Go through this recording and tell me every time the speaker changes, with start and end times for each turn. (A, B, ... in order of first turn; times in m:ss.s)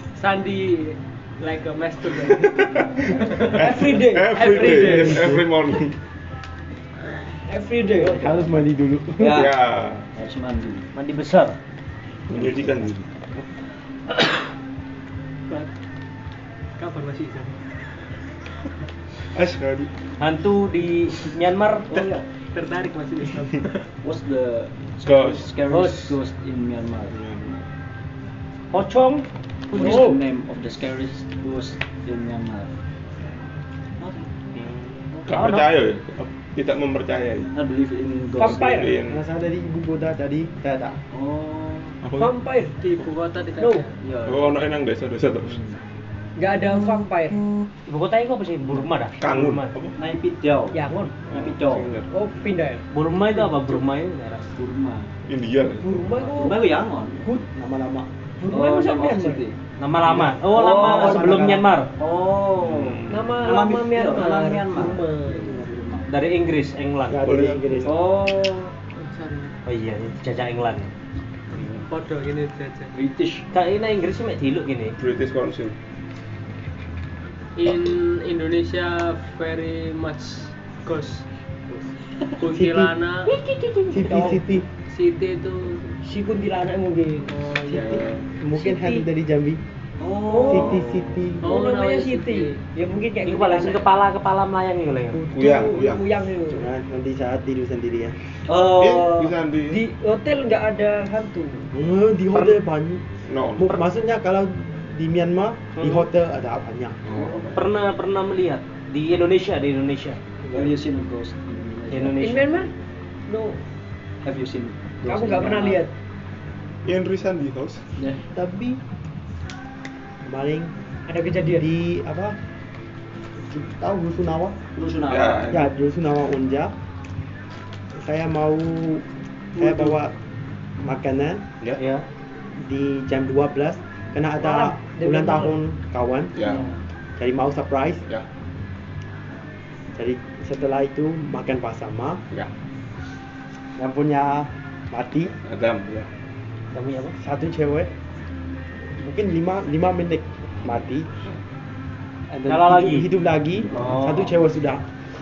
0:00.2-0:03.6 A
0:02.2-0:06.0 B
0:03.4-0:05.3 C
0:04.3-0:05.4 A
0:05.1-0:05.4 D
0:07.3-0:08.3 C
0:08.0-0:09.5 D
0:08.0-0:08.5 E
0:09.2-0:10.9 E
0:09.2-0:10.1 B
0:10.9-0:11.6 F
0:12.3-0:13.5 B
0:16.8-0:17.7 A
0:19.3-0:19.9 B
0:20.2-0:21.9 F
0:21.9-0:22.2 E
0:21.9-0:23.9 A
0:24.0-0:27.2 E
0:25.0-0:25.5 B
0:25.7-0:26.2 F
0:27.1-0:27.7 B
0:28.7-0:29.8 F
0:29.7-0:32.7 E
0:29.8-0:30.2 C
0:34.0-0:34.3 E
0:34.5-0:37.5 B
0:35.1-0:35.5 E
0:35.3-0:35.6 F
0:37.5-0:38.9 E
0:38.4-0:39.0 C
0:38.4-0:39.2 B
0:39.1-0:41.0 D
0:41.1-0:42.0 E
0:42.0-0:42.4 B
0:42.1-0:42.8 C
0:42.8-0:43.9 A
0:43.6-0:43.9 C
0:44.0-0:44.6 E
0:44.2-0:45.6 B
0:46.4-0:47.4 C
0:47.9-0:49.7 F
0:49.2-0:50.0 B
0:50.0-0:51.9 E
0:50.7-0:51.3 C
0:51.3-0:52.1 B
0:52.1-0:52.9 C
0:52.9-0:54.5 F
0:53.4-0:53.8 C
0:54.5-0:55.1 E
0:55.3-0:56.2 B
0:55.8-0:56.7 C
0:56.3-0:57.2 E
0:57.2-0:58.1 D
0:58.4-0:59.4 C
0:58.5-0:59.6 E
0:59.8-1:01.9 F
1:00.1-1:06.1 E
1:00.7-1:01.7 D
1:02.6-1:03.3 B
1:03.1-1:05.6 C
1:06.1-1:07.2 F
1:07.1-1:08.0 D
1:07.2-1:07.9 B
1:07.8-1:08.7 E
1:08.9-1:09.6 A
1:09.6-1:10.9 F
1:11.9-1:12.9 A
1:12.9-1:13.5 E
1:13.5-1:15.0 F
1:15.0-1:15.8 B
1:17.6-1:21.2 A
1:22.4-1:23.3 A
1:22.4-1:22.9 D
1:23.2-1:24.4 C
1:23.9-1:24.7 D
1:24.9-1:25.8 A
1:26.0-1:27.4 C
1:27.4-1:27.9 A
1:27.7-1:29.6 D
1:28.6-1:29.1 C
1:30.0-1:31.2 E
1:30.3-1:30.8 C
1:30.5-1:31.5 D
1:31.4-1:33.9 C
1:31.4-1:32.6 A
1:33.2-1:35.2 F
1:35.1-1:36.7 C
1:35.3-1:36.1 B
1:36.5-1:38.4 D
1:38.5-1:39.4 E
1:38.6-1:39.9 B
1:39.7-1:41.7 C
1:41.7-1:47.0 D
1:43.2-1:43.8 B
1:45.8-1:46.0 F
1:47.0-1:47.6 B
1:47.1-1:47.6 E
1:47.5-1:50.2 F
1:50.5-1:52.4 E
1:51.9-1:52.5 F
1:52.2-1:52.7 C
1:53.3-1:53.6 C
1:54.2-1:55.8 E
1:55.0-1:55.9 C
1:56.8-1:57.9 B
1:58.0-1:58.2 E
1:58.3-1:58.8 D
2:00.2-2:00.7 D
2:01.1-2:01.7 C
2:01.5-2:02.4 D
2:03.5-2:04.6 D
2:04.8-2:05.6 E
2:05.1-2:05.7 B
2:05.5-2:06.8 D
2:07.9-2:10.1 D
2:09.6-2:09.9 C
2:10.8-2:11.5 D
2:11.6-2:12.0 F
2:12.6-2:16.4 D
2:14.4-2:15.6 C
2:16.4-2:16.6 B
2:17.2-2:18.0 D
2:20.0-2:22.2 D
2:23.8-2:25.4 D
2:25.4-2:26.1 B
2:26.7-2:27.2 F
2:27.2-2:27.9 D
2:29.0-2:31.2 D
2:32.3-2:34.9 D
2:32.5-2:33.1 F
2:33.7-2:34.3 F